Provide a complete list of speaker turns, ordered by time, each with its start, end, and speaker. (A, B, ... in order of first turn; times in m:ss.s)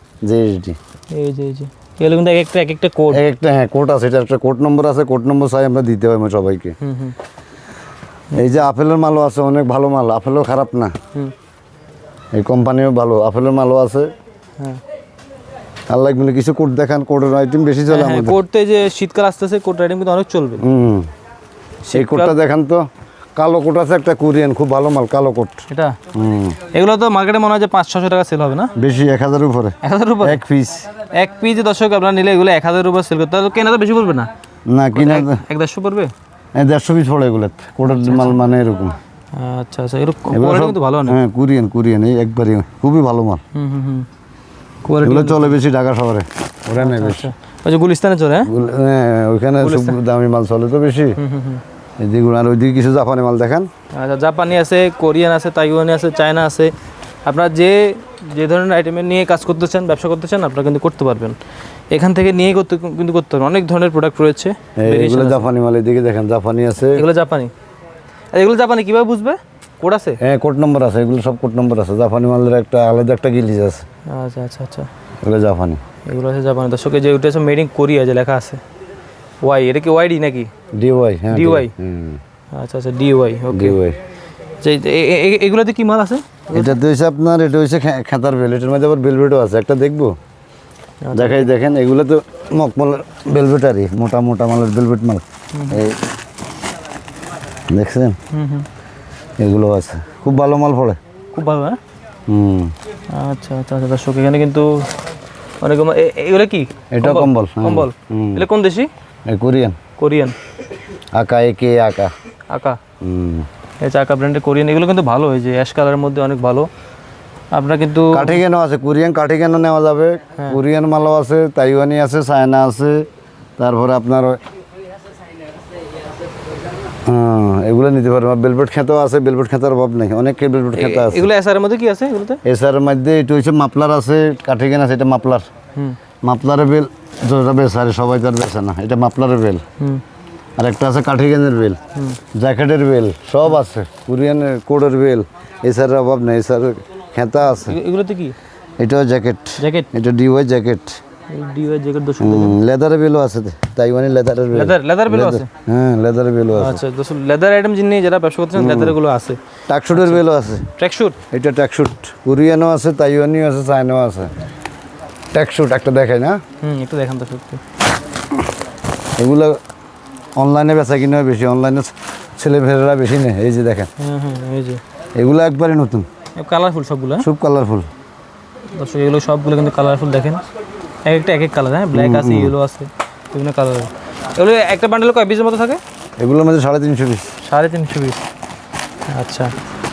0:00.2-0:00.8 A
0:01.1-0:03.2 B
0:03.1-0:06.8 A
0:06.8-0:07.2 B
0:08.4-0:10.9 A
0:12.3-0:14.1 A
0:15.9-0:18.4 A
0:17.9-0:20.6 B
0:20.6-0:21.1 A
0:21.8-0:22.3 B
0:21.9-0:26.6 A
0:25.7-0:26.0 B
0:26.7-0:28.7 B
0:28.8-0:30.9 A
0:29.8-0:30.4 B
0:31.0-0:34.3 B
0:34.7-0:35.4 A
0:35.0-0:36.1 B
0:36.6-0:39.0 A
0:37.8-0:38.4 B
0:39.3-0:41.2 B
0:40.3-0:43.4 A
0:43.5-0:44.1 B
0:44.8-0:45.6 B
0:45.0-0:47.3 A
0:46.8-0:48.5 B
0:48.5-0:51.2 A
0:49.6-0:50.0 B
0:51.2-0:51.6 B
0:52.0-0:53.7 A
0:53.9-0:56.7 B
0:57.2-1:01.4 B
1:01.9-1:05.5 B
1:04.8-1:07.0 A
1:06.9-1:07.5 B
1:08.3-1:10.2 B
1:10.2-1:13.8 A
1:14.1-1:14.9 B
1:15.2-1:15.8 A
1:16.1-1:18.6 B
1:19.4-1:20.5 B
1:20.8-1:22.2 A
1:21.3-1:21.7 B
1:22.5-1:23.8 B
1:23.5-1:24.0 A
1:24.6-1:26.8 B
1:26.5-1:30.2 A
1:31.0-1:31.5 B
1:31.1-1:36.0 A
1:35.5-1:35.8 B
1:37.7-1:38.2 A
1:38.3-1:38.7 B
1:39.4-1:41.0 A
1:41.3-1:41.8 B
1:42.3-1:42.7 A
1:43.1-1:44.9 B
1:45.6-1:48.9 B
1:46.9-1:48.5 A
1:49.3-1:49.8 A
1:50.0-1:50.4 B
1:51.2-1:52.1 A
1:52.5-1:52.8 B
1:53.0-1:53.5 A
1:53.8-1:56.7 B
1:57.5-1:58.4 B
1:58.1-2:03.1 A
2:03.6-2:04.4 A
2:07.1-2:11.3 A
2:10.8-2:12.4 B
2:12.4-2:15.5 A
2:16.2-2:19.6 A
2:20.6-2:21.8 A
2:22.4-2:27.8 A
2:27.5-2:28.4 B
2:28.8-2:31.0 A
2:29.6-2:29.9 B
2:31.3-2:32.6 B
2:32.2-2:36.8 A
2:34.5-2:35.5 B
2:36.5-2:39.4 B
2:38.6-2:39.0 A
2:39.7-2:40.7 A
2:39.9-2:40.2 B
2:40.8-2:41.2 B
2:41.3-2:44.3 A
2:45.3-2:46.4 A
2:46.6-2:47.6 B
2:49.2-2:49.6 A
2:50.4-2:53.9 A
2:54.0-2:54.8 B
2:55.2-2:56.1 A
2:56.4-2:57.3 B
2:57.2-2:57.9 A
2:58.7-3:00.4 B
3:01.0-3:05.8 B
3:01.9-3:02.6 A
3:06.2-3:07.3 A
3:07.4-3:08.2 B
3:09.1-3:09.5 B